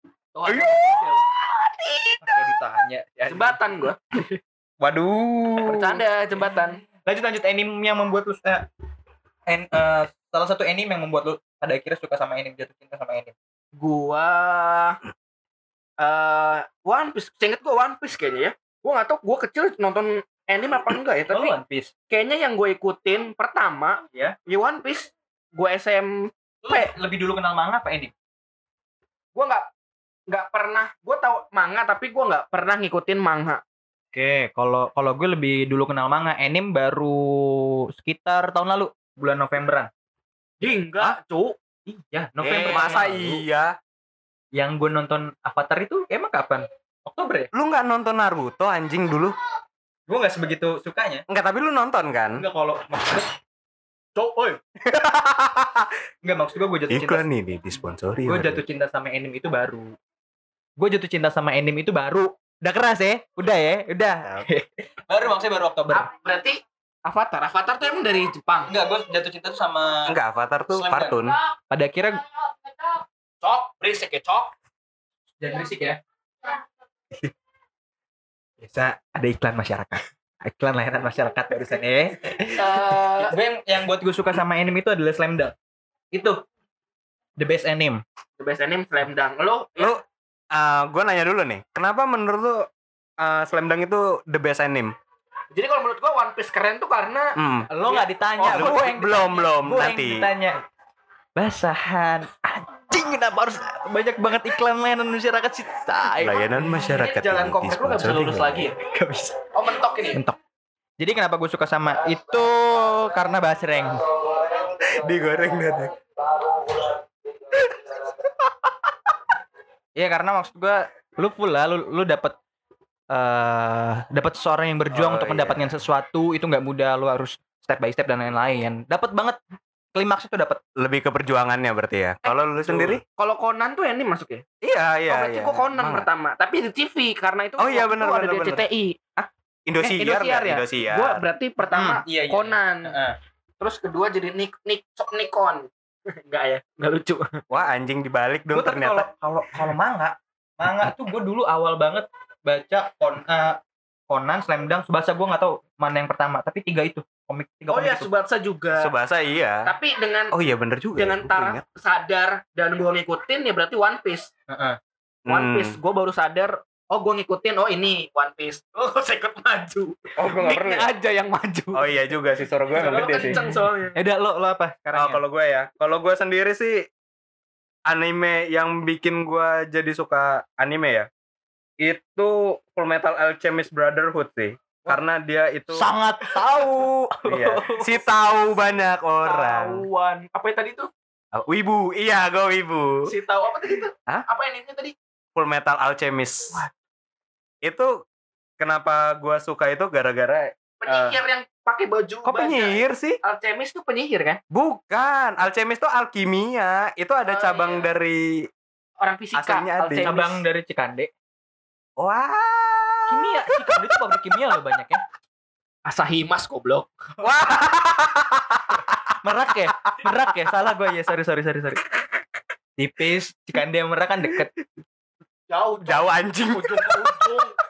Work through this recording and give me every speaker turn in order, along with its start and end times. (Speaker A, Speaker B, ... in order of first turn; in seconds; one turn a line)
Speaker A: 0.3-1.2
Speaker B: 0.5-2.4
Speaker C: 2.2-3.6
Speaker A: 3.3-4.3
Speaker B: 4.8-5.9
Speaker A: 5.7-6.8
Speaker C: 6.4-8.7
Speaker C: 9.5-13.3
Speaker A: 13.8-15.0
Speaker A: 16.0-21.5
Speaker C: 21.3-21.9
Speaker A: 22.1-26.9
Speaker C: 26.6-28.1
Speaker A: 29.4-29.7
Speaker A: 30.3-33.6
Speaker C: 34.1-39.9
Speaker A: 40.6-41.6
Speaker C: 41.9-43.4
Speaker A: 42.4-43.0
Speaker B: 42.4-43.7
Speaker C: 44.5-47.5
Speaker B: 47.5-49.4
Speaker C: 50.1-51.2
Speaker B: 51.3-52.5
Speaker C: 52.4-53.4
Speaker A: 54.2-54.6
Speaker B: 54.9-55.9
Speaker C: 56.2-57.2
Speaker B: 56.9-58.6
Speaker C: 58.3-59.9
Speaker C: 60.8-66.1
Speaker A: 65.9-68.7
Speaker C: 68.7-70.2
Speaker B: 70.1-71.4
Speaker C: 70.7-71.2
Speaker C: 71.7-72.2
Speaker A: 73.4-74.5
Speaker C: 75.4-76.0
Speaker C: 78.6-85.5
Speaker A: 82.6-83.3
Speaker C: 86.1-86.4
Speaker C: 87.4-88.0
Speaker A: 88.4-90.0
Speaker B: 90.5-92.7
Speaker B: 93.2-94.9
Speaker A: 95.5-99.2
Speaker B: 97.4-97.7
Speaker C: 97.7-100.6
Speaker B: 98.5-100.3
Speaker C: 101.4-106.5
Speaker B: 106.2-108.5
Speaker A: 106.8-108.8
Speaker C: 107.7-109.4
Speaker A: 109.5-110.2
Speaker C: 111.0-114.1
Speaker B: 114.8-115.9
Speaker B: 117.7-118.0
Speaker C: 120.0-122.4
Speaker C: 123.1-129.4
Speaker B: 124.9-125.7
Speaker C: 129.9-130.6
Speaker B: 130.8-133.0
Speaker C: 132.7-133.0
Speaker A: 133.2-134.4
Speaker B: 134.6-136.1
Speaker A: 135.1-139.0
Speaker B: 137.6-138.7
Speaker B: 139.2-141.2
Speaker A: 139.8-142.9
Speaker C: 141.7-143.2
Speaker A: 143.6-147.4
Speaker B: 147.5-149.1
Speaker C: 148.5-158.1
Speaker A: 157.7-158.9
Speaker B: 158.8-159.7
Speaker A: 159.7-160.3
Speaker B: 160.3-161.6
Speaker A: 160.9-164.3
Speaker C: 164.5-164.8
Speaker B: 165.3-165.8
Speaker A: 165.3-171.9
Speaker B: 170.2-170.9
Speaker B: 171.7-173.4
Speaker A: 172.7-174.0
Speaker C: 173.3-175.2
Speaker B: 174.9-176.9
Speaker B: 177.9-181.1
Speaker B: 181.8-185.9
Speaker C: 185.7-188.0
Speaker B: 187.3-189.8
Speaker A: 189.2-190.9
Speaker B: 191.3-193.1
Speaker A: 193.1-195.0
Speaker B: 195.3-196.6
Speaker B: 197.6-198.0
Speaker B: 198.6-201.2
Speaker A: 200.8-204.4
Speaker B: 202.2-203.2
Speaker B: 204.5-208.5
Speaker A: 207.3-207.9
Speaker A: 209.0-210.4
Speaker B: 209.3-210.1
Speaker C: 210.0-211.1
Speaker B: 212.0-213.8
Speaker C: 213.1-215.1
Speaker A: 215.9-217.1
Speaker B: 217.2-219.1
Speaker C: 219.2-221.8
Speaker B: 219.8-220.1
Speaker C: 222.8-224.5
Speaker A: 225.5-227.6
Speaker B: 225.8-227.4